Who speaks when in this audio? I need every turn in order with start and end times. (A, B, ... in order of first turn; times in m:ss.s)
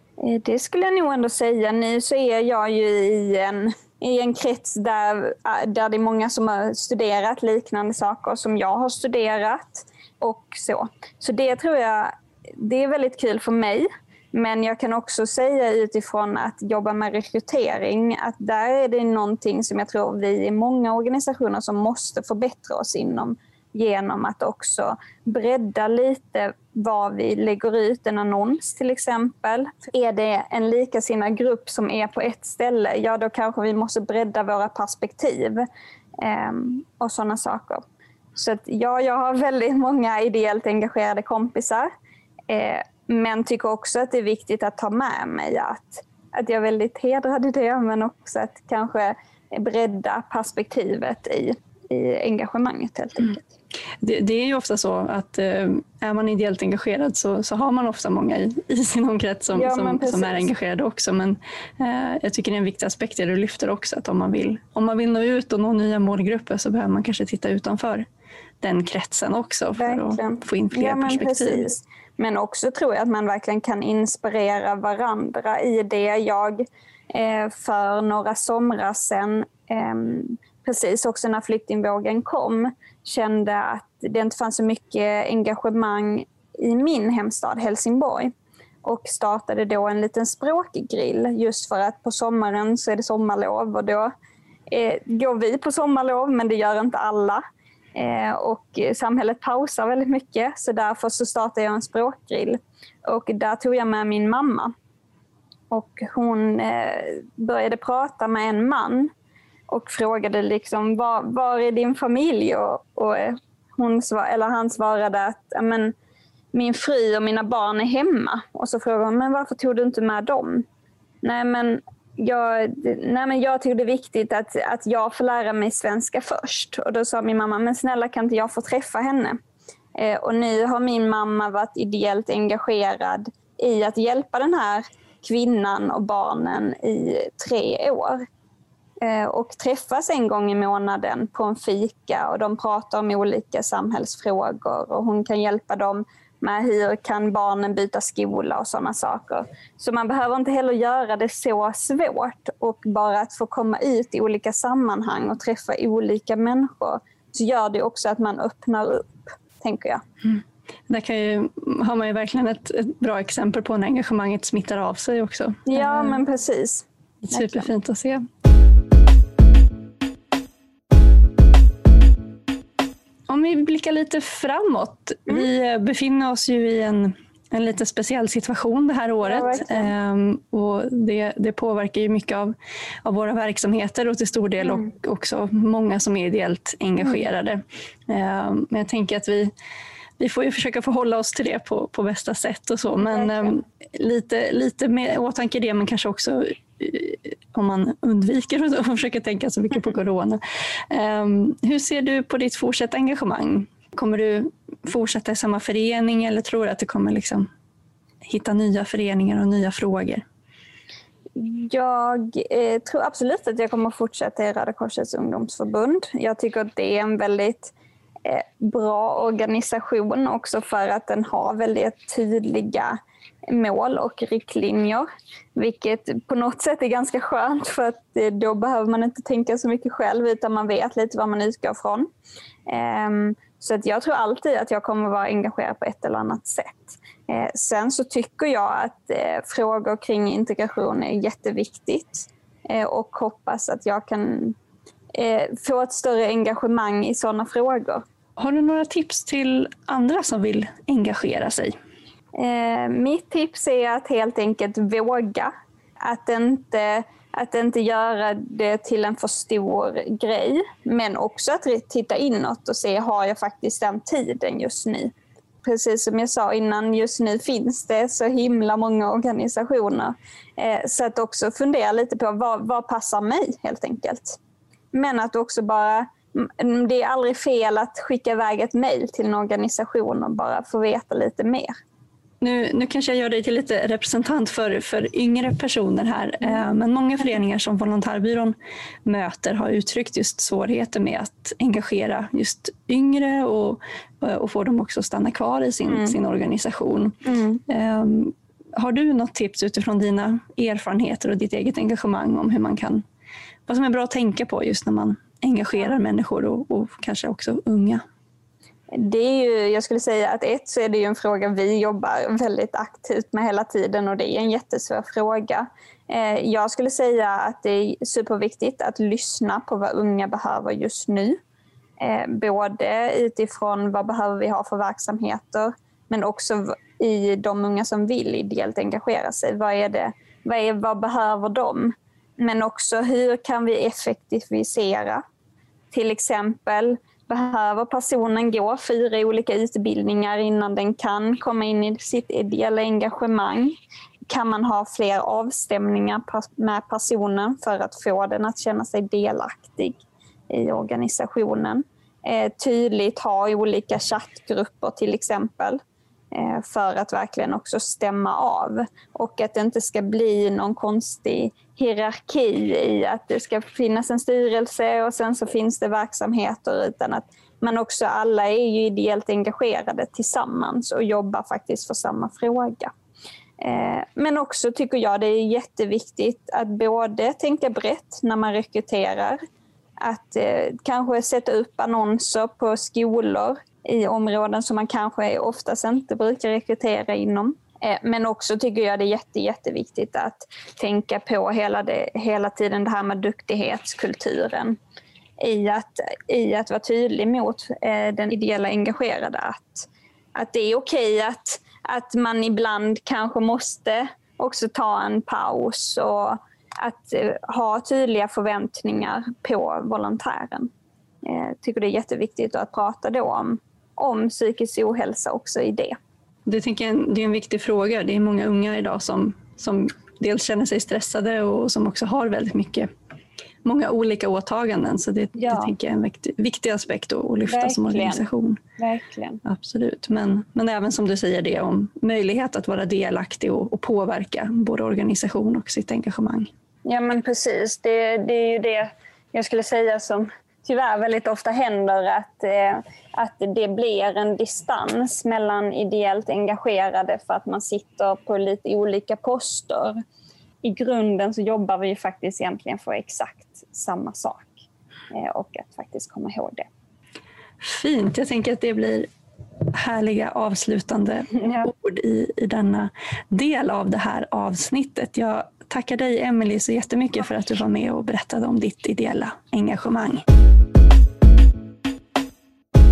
0:00.2-0:35.7 A
0:36.2-0:37.8 A
0:38.4-0:41.9 A
0:42.5-0:53.4 A
0:54.0-1:08.1 B
0:59.5-1:00.5 A
1:08.6-1:11.7 B
1:09.8-1:28.3 A
1:28.8-1:34.1 A
1:34.7-1:37.4 A
1:38.0-1:44.7 A
1:45.7-1:49.1 A
1:49.7-1:56.0 A
1:56.5-2:00.7 A
2:01.2-2:09.4 A
2:10.0-2:18.3 A
2:19.0-2:40.0 A
2:40.3-2:46.2 B
2:45.7-2:47.7 A
2:47.2-2:48.3 B
2:53.3-3:02.5 B
2:59.2-2:59.9 A
3:03.0-3:09.5 B
3:04.6-3:04.9 A
3:07.0-3:07.3 A
3:10.2-3:27.5 B
3:13.0-3:13.5 A
3:28.2-3:30.2 B
3:31.4-3:37.7 A
3:38.2-3:52.1 A
3:52.7-4:04.6 A
4:05.1-4:08.0 A
4:08.4-4:11.8 B
4:12.4-4:15.5 A
4:16.0-4:25.1 A
4:25.6-4:34.4 A
4:34.9-4:41.8 A
4:42.4-4:57.2 B
4:55.9-4:56.2 A
4:57.2-4:57.6 A
4:57.7-5:03.0 B
5:03.7-5:08.0 B
5:08.9-5:21.4 A
5:22.0-5:35.2 A
5:35.9-5:43.8 A
5:44.3-5:55.8 A
5:56.3-6:12.9 A
6:13.6-6:19.4 A
6:20.0-6:34.8 A
6:35.4-6:50.7 A
6:51.2-6:56.0 A
6:56.5-7:02.9 B
7:03.6-7:08.6 B
7:05.4-7:05.7 A
7:07.5-7:08.3 A
7:08.8-7:09.4 A
7:09.4-7:16.5 B
7:16.9-7:30.0 A
7:30.6-7:34.5 A
7:35.1-7:36.7 A
7:37.6-7:39.1 B
7:39.7-7:50.2 B
7:41.3-7:41.7 A